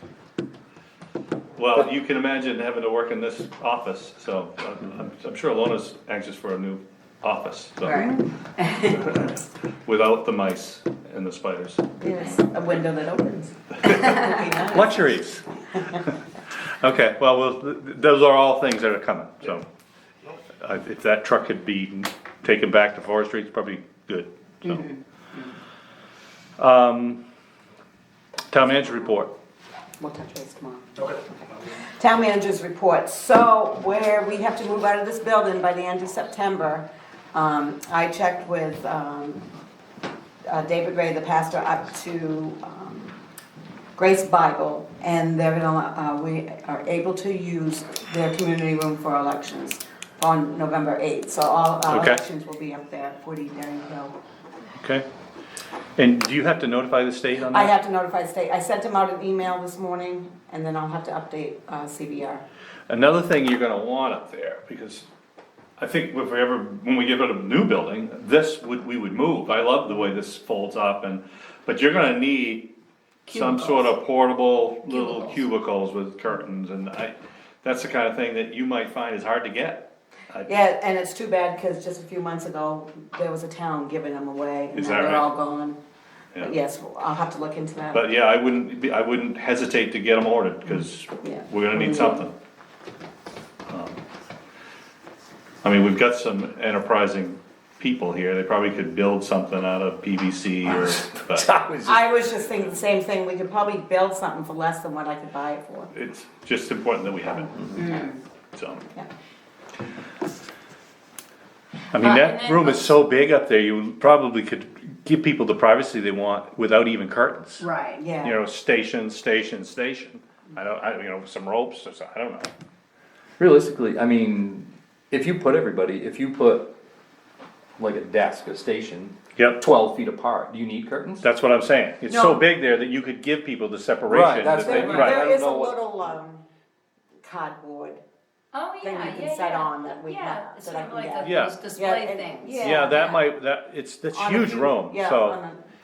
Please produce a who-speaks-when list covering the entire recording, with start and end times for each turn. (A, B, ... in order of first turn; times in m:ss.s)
0:01.6-0:08.1 A
0:07.8-0:09.4 B
0:08.9-0:11.8 A
0:12.0-0:15.0 C
0:13.8-0:14.2 B
0:14.6-0:16.1 A
0:16.6-0:19.6 A
0:20.6-0:24.9 A
0:24.6-0:25.5 B
0:26.6-0:27.2 A
0:28.5-0:29.3 A
0:30.0-0:31.2 C
0:31.8-0:39.5 C
0:40.5-0:43.2 C
0:44.0-0:54.2 C
0:51.9-0:52.2 A
0:54.8-0:55.0 A
0:56.0-0:57.7 A
0:57.5-1:02.4 C
1:02.9-1:05.1 A
1:05.8-1:12.7 A
1:13.3-1:13.9 B
1:13.3-1:20.5 A
1:14.9-1:15.4 B
1:20.5-1:25.8 C
1:24.7-1:25.3 A
1:26.4-1:28.1 C
1:27.9-1:32.3 A
1:31.2-1:32.2 C
1:33.7-1:34.0 A
1:35.6-1:41.5 A
1:40.7-1:42.1 D
1:41.8-1:45.9 C
1:45.9-1:48.0 A
1:47.8-1:48.2 B
1:48.5-1:48.8 A
1:51.9-1:57.6 A
1:52.0-1:52.9 B
1:57.6-1:58.1 B
1:58.0-1:58.4 C
1:58.2-2:02.5 A
2:03.4-2:06.7 D
2:07.8-2:11.2 D
2:11.2-2:15.3 A
2:12.1-2:12.4 C
2:14.1-2:15.8 D
2:14.6-2:16.4 C
2:17.2-2:18.0 C
2:18.5-2:23.0 B
2:18.8-2:23.2 C
2:21.2-2:21.6 A
2:22.6-2:25.4 A
2:24.1-2:25.6 C